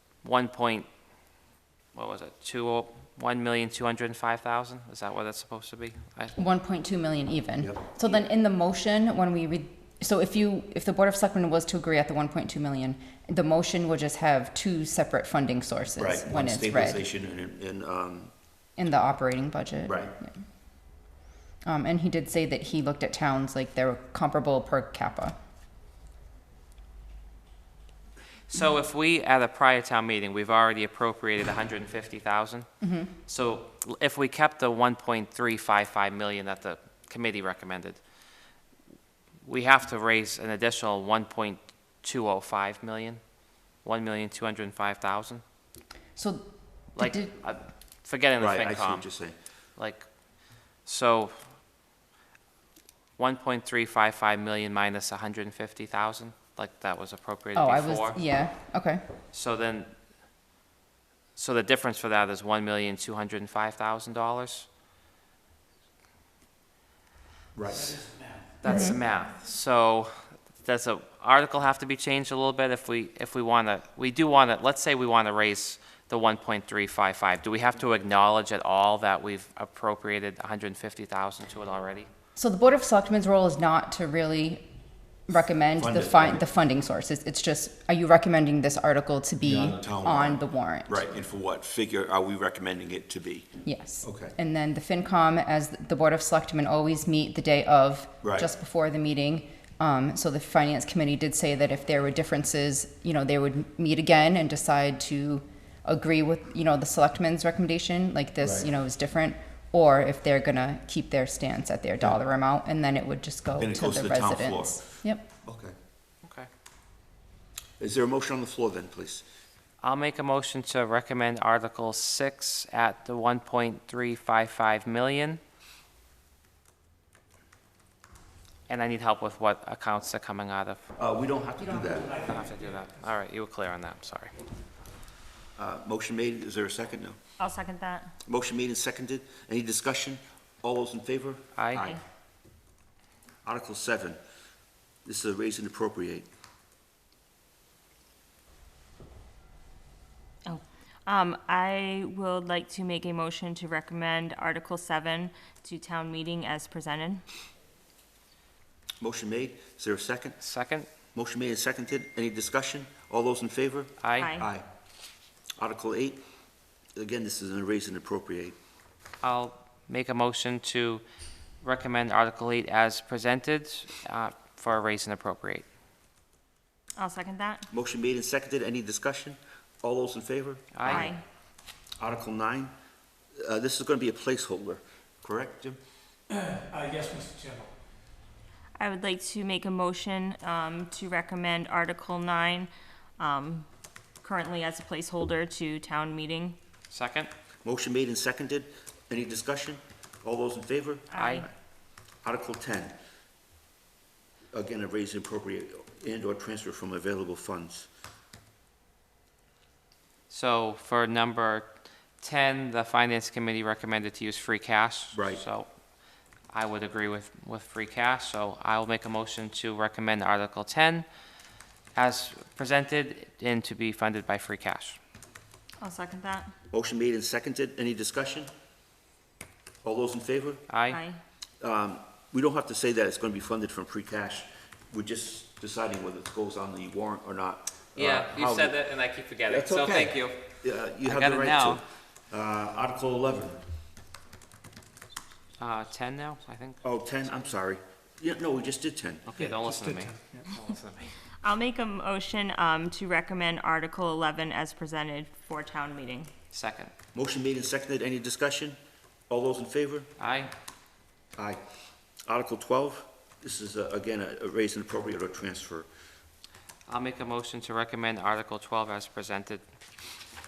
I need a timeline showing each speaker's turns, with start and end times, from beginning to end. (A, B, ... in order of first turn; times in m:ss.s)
0:00.2-0:00.9 A
0:01.9-0:06.4 A
0:06.4-0:17.0 B
0:07.6-0:08.1 C
0:16.0-0:18.3 C
0:18.8-0:20.4 B
0:19.9-0:20.1 C
0:21.6-0:25.3 B
0:28.5-0:32.7 A
0:32.8-0:33.1 B
0:33.2-0:38.0 A
0:39.4-0:43.2 A
0:43.8-0:45.4 A
0:46.2-0:46.4 B
0:46.9-0:49.0 A
0:47.0-0:47.4 B
0:48.4-0:49.3 C
0:49.8-0:50.1 A
0:50.8-0:51.4 A
0:53.2-0:58.2 A
0:57.5-0:59.0 B
0:59.3-0:59.9 A
1:01.4-1:04.7 A
1:07.5-1:08.0 C
1:07.7-1:08.4 D
1:08.6-1:22.1 A
1:08.6-1:09.0 B
1:22.4-1:24.7 B
1:25.3-1:31.0 B
1:25.7-1:26.4 C
1:29.4-1:33.5 C
1:33.6-1:55.2 B
1:34.0-1:34.3 C
1:38.2-1:38.5 C
1:53.6-1:54.9 C
1:55.4-1:55.7 C
1:56.2-1:56.5 A
1:57.8-1:59.2 C
1:59.8-2:05.4 A
2:08.7-2:10.8 A
2:11.0-2:12.3 C
2:11.6-2:12.8 D
2:12.2-2:14.3 A
2:15.6-2:17.2 C
2:17.4-2:18.1 E
2:18.2-2:22.0 C
2:21.6-2:21.8 A
2:23.4-2:24.2 C
2:25.0-2:26.3 C
2:30.4-2:37.2 E
2:39.0-2:40.4 C
2:40.4-2:40.9 A
2:41.1-2:44.6 C
2:44.0-2:44.3 A
2:44.2-2:44.5 E
2:45.6-2:46.2 C
2:47.0-2:48.6 C
2:49.2-2:51.0 A
2:51.6-2:55.6 A
2:57.0-2:57.7 E
2:57.7-3:01.1 C
3:00.7-3:01.1 A
3:00.8-3:01.2 E
3:02.0-3:02.7 C
3:03.4-3:05.8 C
3:06.3-3:07.7 D
3:08.8-3:13.7 E
3:14.2-3:16.6 E
3:16.9-3:17.3 A
3:17.6-3:21.5 C
3:21.1-3:21.5 E
3:21.2-3:21.4 A
3:22.2-3:23.0 C
3:24.5-3:27.9 C
3:30.3-3:35.7 A
3:35.1-3:35.4 C
3:36.5-3:41.0 A
3:41.9-3:45.0 A
3:45.8-3:46.5 E
3:46.7-3:48.5 C
3:49.8-3:50.6 C
3:50.7-3:51.0 A
3:50.9-3:51.2 E
3:51.6-3:58.8 C
3:58.0-4:00.4 A
3:59.5-4:03.6 C
4:01.0-4:01.8 A
4:05.6-4:07.5 A
4:06.8-4:09.4 C
4:09.2-4:11.2 A
4:09.4-4:10.5 D
4:11.4-4:16.3 E
4:16.5-4:16.9 A
4:17.1-4:18.8 C
4:19.3-4:20.1 C
4:20.2-4:20.5 A
4:22.2-4:25.9 C
4:26.9-4:29.6 A